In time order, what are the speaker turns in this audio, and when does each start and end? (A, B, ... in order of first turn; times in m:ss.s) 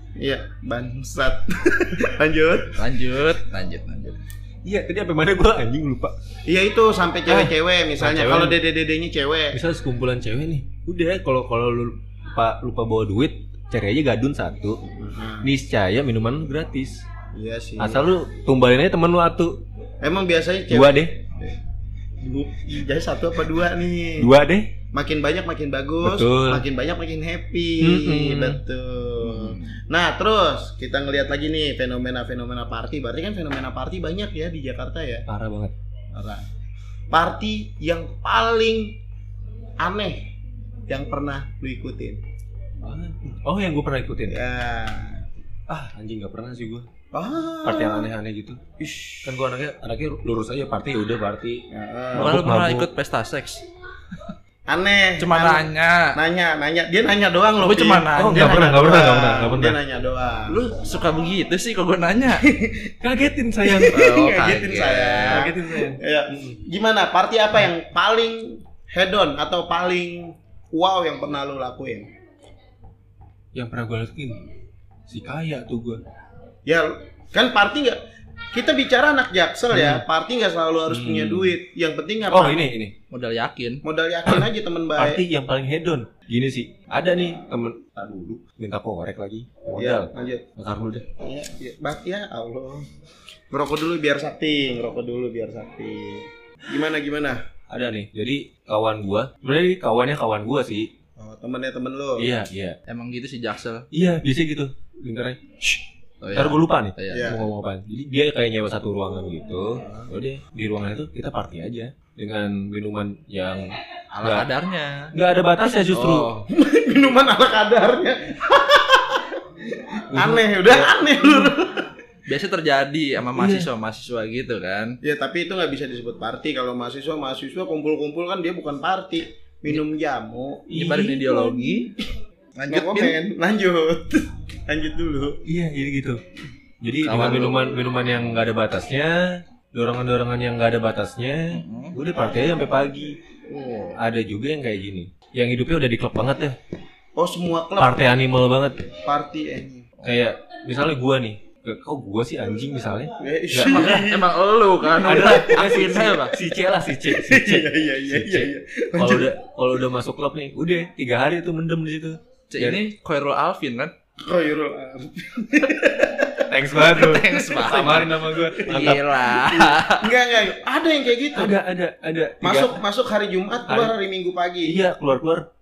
0:00.2-0:02.8 A
0:02.7-0:04.2 B
0:04.6-0:06.1 C
0:06.5-0:09.6 A
0:07.3-0:08.6 C
0:09.5-0:14.8 C
0:14.9-0:15.5 A
0:15.4-0:17.0 C
0:17.3-0:18.1 A
0:17.8-0:19.6 C
0:20.0-0:21.6 A
0:20.7-0:21.2 C
0:22.2-0:24.3 A
0:24.2-0:24.7 C
0:24.9-0:35.2 A
0:26.0-0:26.6 C
0:27.8-0:28.6 C
0:29.2-0:29.7 B
0:35.3-0:35.7 C
0:36.1-0:36.4 A
0:37.1-0:39.0 A
0:39.8-0:40.3 A
0:40.9-0:42.2 A
0:42.8-0:44.4 C
0:44.3-0:45.2 A
0:45.7-0:46.9 C
0:47.1-0:48.1 A
0:47.6-0:48.6 C
0:48.8-0:49.2 A
0:49.2-0:52.9 C
0:51.7-0:52.4 A
0:52.1-0:53.6 B
0:54.7-1:00.6 A
0:55.2-0:56.1 B
0:57.6-0:58.7 B
0:58.1-0:59.8 C
1:00.5-1:02.4 B
1:02.4-1:03.0 A
1:03.0-1:04.0 C
1:03.6-1:12.1 A
1:03.9-1:05.5 B
1:05.2-1:06.6 C
1:13.5-1:14.5 C
1:15.1-1:16.0 C
1:16.6-1:22.6 A
1:19.7-1:20.0 C
1:20.9-1:21.6 C
1:22.3-1:22.9 C
1:23.1-1:23.8 B
1:23.8-1:25.2 A
1:25.0-1:31.1 C
1:29.7-1:30.4 A
1:31.2-1:32.9 A
1:33.5-1:37.4 A
1:37.7-1:40.9 C
1:41.2-1:42.3 A
1:42.2-1:42.8 C
1:42.9-1:43.9 B
1:43.9-1:54.5 C
1:46.2-1:47.3 B
1:47.1-1:47.4 A
1:54.1-1:55.1 B
1:55.1-1:56.4 C
1:55.9-1:56.4 B
1:56.5-2:01.9 A
2:00.1-2:01.5 C
2:02.3-2:05.0 B
2:03.4-2:03.7 C
2:05.0-2:11.6 A
2:10.7-2:11.6 C
2:10.7-2:11.9 B
2:12.6-2:13.2 B
2:12.7-2:15.4 A
2:15.4-2:16.2 C
2:16.8-2:23.2 C
2:17.0-2:17.8 B
2:21.5-2:22.0 B
2:23.5-2:23.9 A
2:24.0-2:26.6 C
2:27.2-2:28.1 A
2:27.8-2:28.9 C
2:28.9-2:29.8 A
2:30.0-2:34.0 C
2:33.2-2:34.3 A
2:33.6-2:36.4 B
2:35.0-2:42.8 C
2:37.0-2:39.3 A
2:42.5-2:43.9 B
2:44.2-2:48.0 A
2:46.4-2:49.0 C
2:46.8-2:50.1 B
2:48.8-2:51.5 A
2:51.3-2:52.8 C
2:52.4-2:54.8 A
2:53.7-2:53.9 C
2:54.6-2:55.5 C